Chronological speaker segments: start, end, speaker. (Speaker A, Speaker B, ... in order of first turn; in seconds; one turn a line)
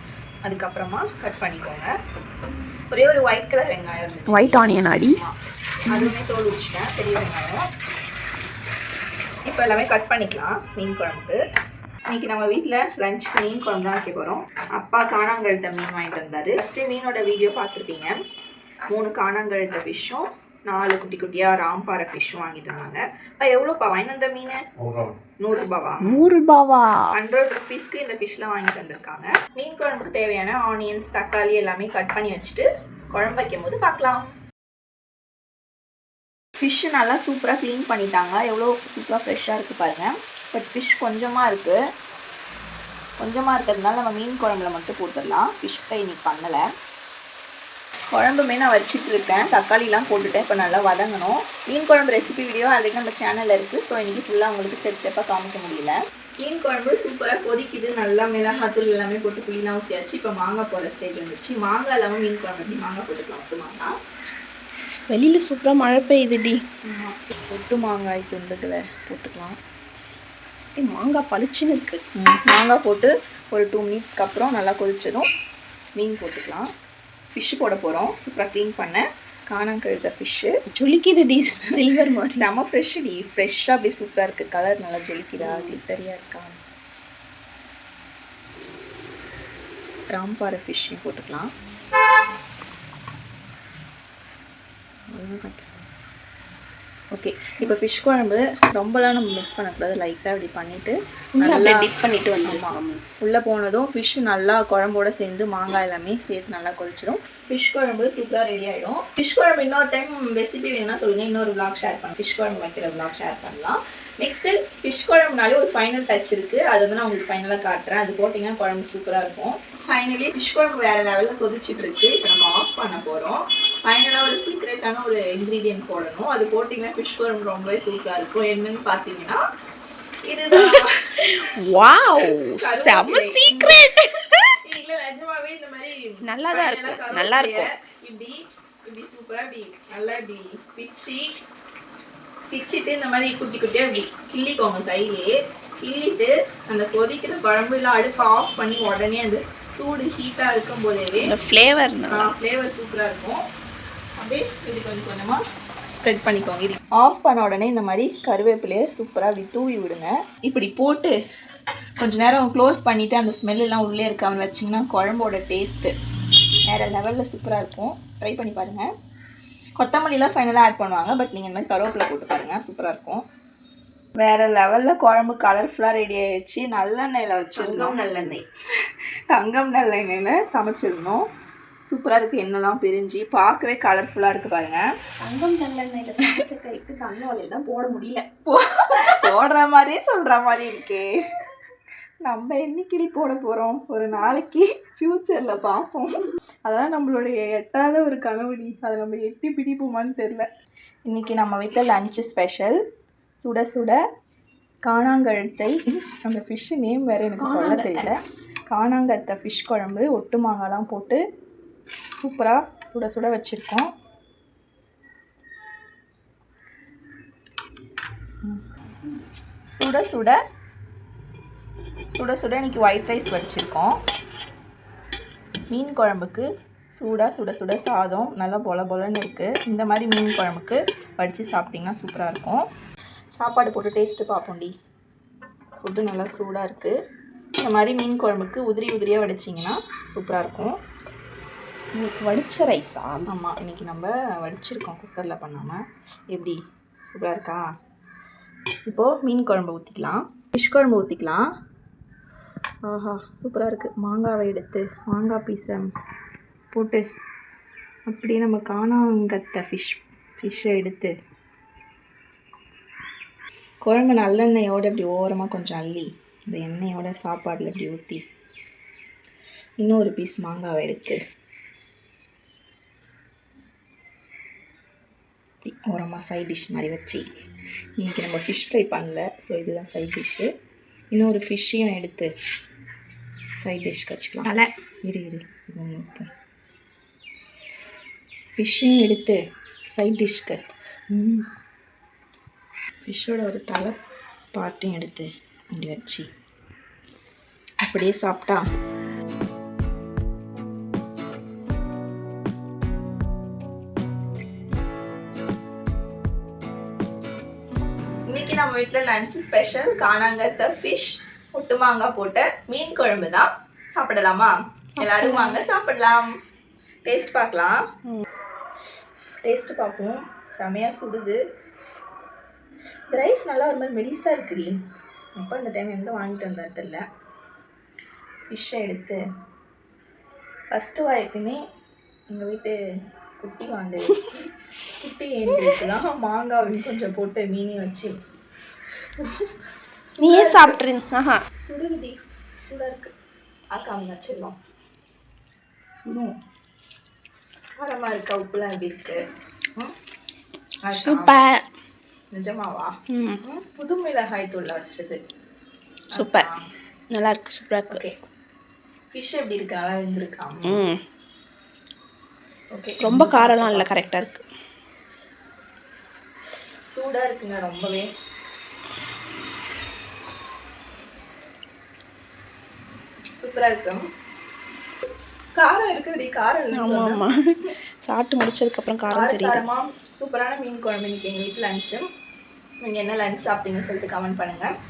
Speaker A: 0.4-1.9
Speaker A: 2.9-5.3
Speaker B: 4.3-5.2
Speaker A: 5.9-7.7
Speaker A: 9.5-11.4
Speaker A: 12.1-18.1
Speaker A: 18.9-24.6
Speaker A: 25.4-26.2
Speaker B: 26.0-27.1
Speaker A: 27.1-34.3
Speaker A: 36.6-41.8
Speaker A: 43.2-46.6
Speaker A: 48.1-63.9
Speaker B: 65.1-66.6
Speaker A: 66.8-69.6
Speaker B: 70.8-72.0
Speaker A: 72.2-75.3
Speaker A: 76.0-76.7
Speaker A: 77.3-80.5
Speaker B: 80.7-82.5
Speaker A: 82.3-86.6
Speaker B: 85.4-85.8
Speaker A: 90.1-91.5
Speaker B: 95.1-95.6
Speaker A: 97.1-101.8
Speaker B: 101.4-103.0
Speaker A: 102.4-129.4
Speaker A: 130.3-131.4
Speaker B: 130.5-134.4
Speaker A: 132.2-133.9
Speaker A: 134.6-141.3
Speaker B: 136.2-137.7
Speaker A: 142.5-151.3
Speaker B: 151.2-152.3
Speaker A: 152.1-153.4
Speaker A: 154.2-161.1
Speaker A: 162.0-165.9
Speaker A: 166.7-168.9
Speaker A: 169.8-173.2
Speaker A: 174.2-181.3
Speaker B: 177.6-178.3
Speaker A: 181.9-184.8
Speaker B: 185.2-189.2
Speaker A: 188.5-191.1
Speaker A: 192.2-196.1
Speaker A: 196.7-200.5
Speaker A: 201.1-202.8
Speaker A: 203.4-204.0
Speaker A: 204.8-211.2
Speaker B: 207.4-208.1
Speaker A: 212.2-213.9
Speaker A: 219.7-220.4
Speaker A: 222.1-224.0
Speaker A: 225.7-232.6
Speaker A: 233.3-234.7
Speaker A: 235.8-236.9
Speaker A: 237.6-240.8
Speaker B: 242.0-243.3
Speaker A: 243.3-247.6
Speaker A: 248.8-251.4
Speaker A: 252.8-255.9
Speaker A: 256.7-257.0
Speaker A: 258.1-261.1
Speaker A: 263.8-268.2
Speaker A: 269.8-271.2
Speaker A: 275.6-277.2
Speaker A: 278.0-280.5
Speaker A: 281.1-282.3
Speaker A: 283.6-284.5
Speaker A: 285.0-286.3
Speaker A: 288.6-289.4
Speaker A: 289.9-290.7
Speaker A: 293.0-293.9
Speaker A: 294.5-296.3
Speaker A: 297.8-298.6
Speaker A: 308.3-316.3
Speaker B: 314.9-315.6
Speaker A: 317.0-317.8
Speaker A: 319.4-321.4
Speaker A: 323.1-324.7
Speaker A: 325.3-327.0
Speaker A: 328.5-329.2
Speaker A: 330.7-331.6
Speaker A: 332.3-332.8
Speaker A: 333.4-338.1
Speaker A: 339.2-339.5
Speaker A: 340.1-340.8
Speaker B: 340.2-341.4
Speaker A: 341.6-342.2
Speaker A: 342.7-343.1
Speaker A: 343.7-344.6
Speaker A: 346.1-346.3
Speaker A: 347.8-349.2
Speaker A: 350.8-351.4
Speaker B: 350.9-351.6
Speaker A: 352.3-355.2
Speaker B: 353.1-353.4
Speaker A: 356.1-356.7
Speaker B: 356.1-356.4
Speaker B: 357.1-358.0
Speaker A: 357.9-358.1
Speaker A: 359.1-360.8
Speaker B: 360.6-361.0
Speaker A: 362.7-364.0
Speaker B: 363.0-364.4
Speaker A: 366.9-368.1
Speaker A: 373.4-374.0
Speaker A: 375.6-377.2
Speaker B: 376.7-379.6
Speaker A: 379.1-382.1
Speaker A: 382.8-384.7